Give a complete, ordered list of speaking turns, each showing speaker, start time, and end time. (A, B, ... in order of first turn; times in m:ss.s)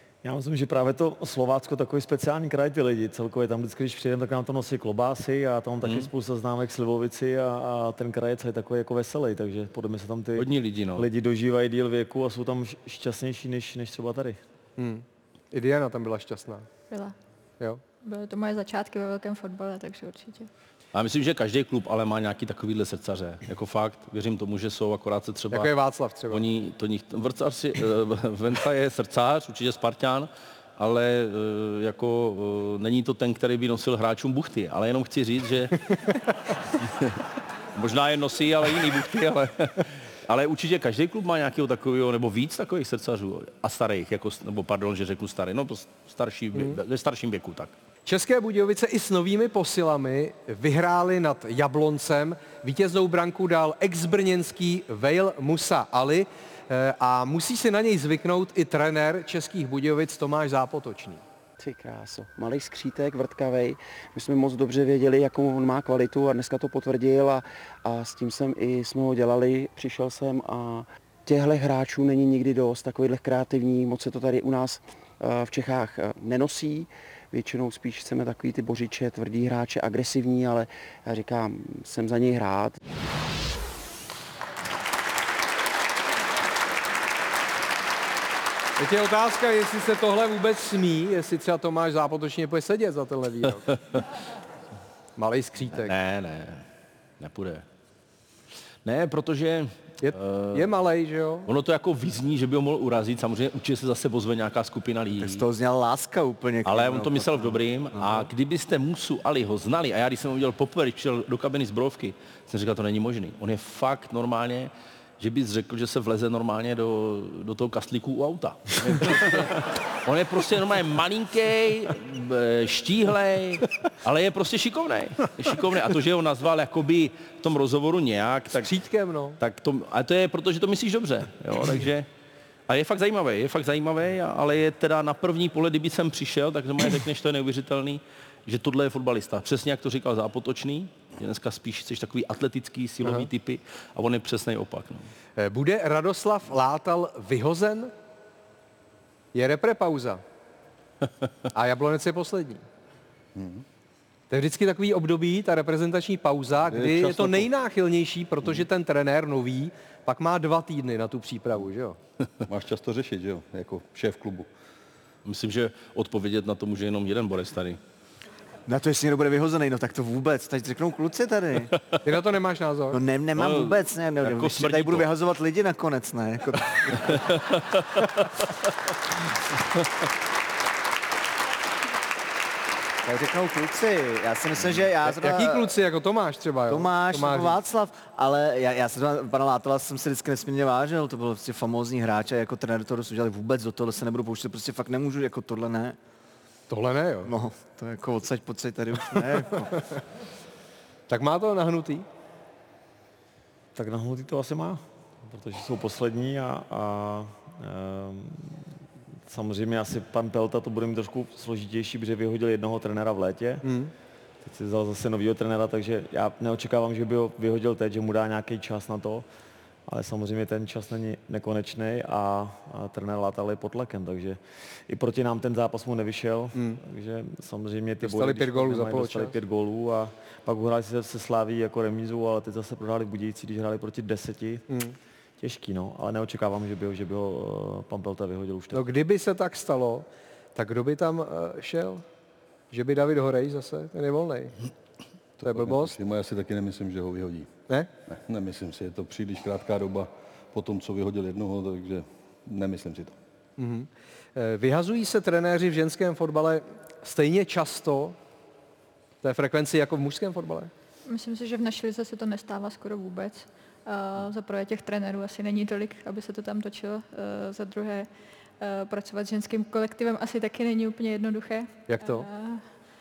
0:00.2-0:14.4 A
0:05.8-0:06.1 B
0:10.4-0:11.0 B
0:14.8-0:16.7 C
0:18.0-0:20.5 D
0:20.9-0:25.7 B
0:25.5-0:26.4 C
0:26.3-0:35.8 B
0:36.8-0:37.2 B
0:37.7-0:47.7 B
0:46.5-0:46.8 C
0:48.1-1:01.2 C
1:01.6-1:22.8 E
1:28.8-1:33.8 C
1:35.2-1:35.9 C
1:35.8-1:36.6 B
1:37.2-1:37.6 B
1:38.8-1:40.7 B
1:40.0-1:41.5 C
1:41.5-1:45.4 B
1:45.2-1:48.3 F
1:46.6-2:08.7 B
2:08.6-2:09.4 C
2:09.4-2:12.1 B
2:12.7-2:25.1 B
2:25.4-2:27.9 C
2:29.3-2:30.2 C
2:31.5-2:32.6 C
2:33.4-2:33.6 G
2:34.3-2:42.0 C
2:36.7-2:37.5 G
2:42.5-2:44.5 G
2:45.2-2:47.8 B
2:48.7-2:51.7 F
2:52.0-2:53.0 C
2:52.9-2:57.4 F
2:53.4-2:55.0 B
2:57.1-2:58.2 B
3:03.0-3:05.7 F
3:05.0-3:07.6 C
3:06.7-3:16.0 F
3:16.7-3:17.3 C
3:17.2-3:19.8 F
3:21.1-3:22.0 C
3:23.7-3:33.6 A
3:33.6-3:33.9 C
3:34.4-3:39.2 A
3:39.9-3:54.6 A
3:46.5-3:46.8 C
3:48.0-3:49.3 C
3:54.7-3:54.9 C
3:55.4-3:58.9 A
3:58.7-4:02.0 C
4:02.7-4:04.5 C
4:05.4-4:07.5 G
4:05.4-4:06.0 C
4:08.1-4:13.1 G
4:13.6-4:18.2 C
4:19.2-4:20.7 C
4:21.0-4:28.1 D
4:28.6-4:32.6 D
4:31.9-4:32.2 C